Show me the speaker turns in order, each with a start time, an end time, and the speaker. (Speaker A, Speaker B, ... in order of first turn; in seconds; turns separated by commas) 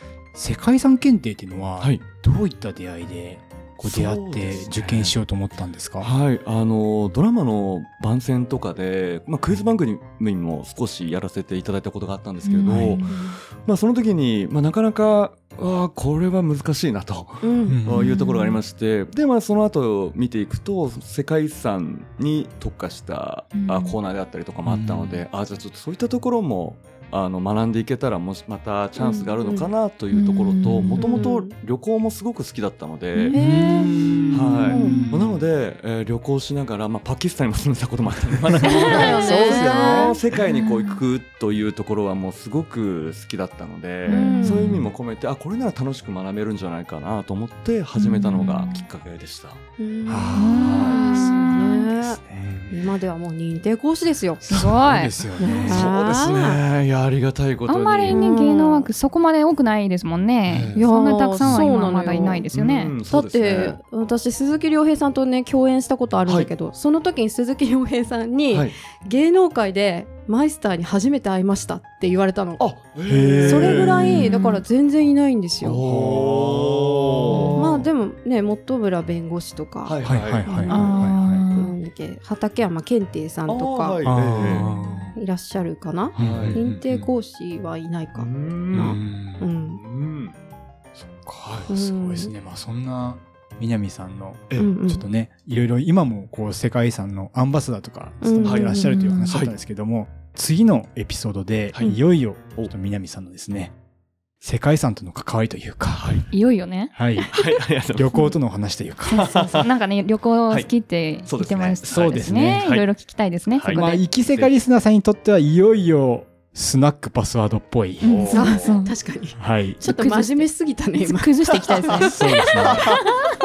Speaker A: 0.3-6.1, Speaker B: 3.8-5.2, Speaker B: 6.0-33.4, Speaker C: 12.4-13.2, Speaker A: 12.7-13.0, Speaker D: 13.0-13.4, Speaker D: 17.4-17.8, Speaker A: 17.7-18.5, Speaker C: 23.5-24.0, Speaker A: 24.7-25.2, Speaker D: 29.0-29.7, Speaker C: 30.1-31.0, Speaker A: 30.6-31.0, Speaker D: 31.0-31.5, Speaker D: 33.3-35.0, Speaker A: 33.3-35.4, Speaker B: 34.3-49.6, Speaker C: 34.7-35.1, Speaker D: 38.7-40.2, Speaker A: 38.8-40.1, Speaker C: 44.1-44.7, Speaker D: 44.1-44.7, Speaker A: 44.5-44.9, Speaker C: 48.0-48.8, Speaker D: 49.8-54.5, Speaker A: 50.1-52.8, Speaker C: 50.3-51.7, Speaker B: 50.6-51.0, Speaker C: 54.5-55.7, Speaker A: 54.5-55.9, Speaker D: 55.4-56.6, Speaker B: 55.6-58.2, Speaker C: 57.7-63.0, Speaker D: 58.1-58.9, Speaker B: 60.5-60.8, Speaker D: 60.7-62.5, Speaker B: 62.5-63.8, Speaker D: 63.1-72.7, Speaker B: 66.3-66.5, Speaker B: 72.6-74.2, Speaker A: 73.0-74.2, Speaker D: 73.4-75.8, Speaker C: 74.1-74.6, Speaker B: 75.6-77.9, Speaker A: 75.8-77.7, Speaker D: 77.6-89.8, Speaker B: 79.8-80.5, Speaker A: 80.0-81.5, Speaker C: 80.7-81.8, Speaker B: 83.5-84.7, Speaker A: 84.0-85.2, Speaker C: 84.7-85.1, Speaker B: 86.2-86.7, Speaker A: 86.2-87.1, Speaker B: 88.2-89.0, Speaker A: 88.7-89.5, Speaker B: 89.8-90.3, Speaker A: 91.0-103.7, Speaker B: 91.4-91.7, Speaker D: 91.7-92.3, Speaker D: 94.6-95.0, Speaker D: 98.2-99.0, Speaker B: 98.4-99.5, Speaker C: 98.9-99.3, Speaker A: 104.4-106.2, Speaker B: 105.9-106.3, Speaker C: 106.3-106.9, Speaker A: 106.9-107.3, Speaker B: 107.3-108.1, Speaker A: 107.9-109.4, Speaker C: 109.1-114.1, Speaker B: 109.1-109.7, Speaker B: 111.2-112.9, Speaker A: 111.9-112.7, Speaker B: 113.5-114.5, Speaker A: 113.7-118.4, Speaker C: 118.0-119.0, Speaker B: 118.0-118.7, Speaker D: 118.3-122.1, Speaker A: 119.4-119.8, Speaker C: 119.8-123.3, Speaker A: 122.0-123.0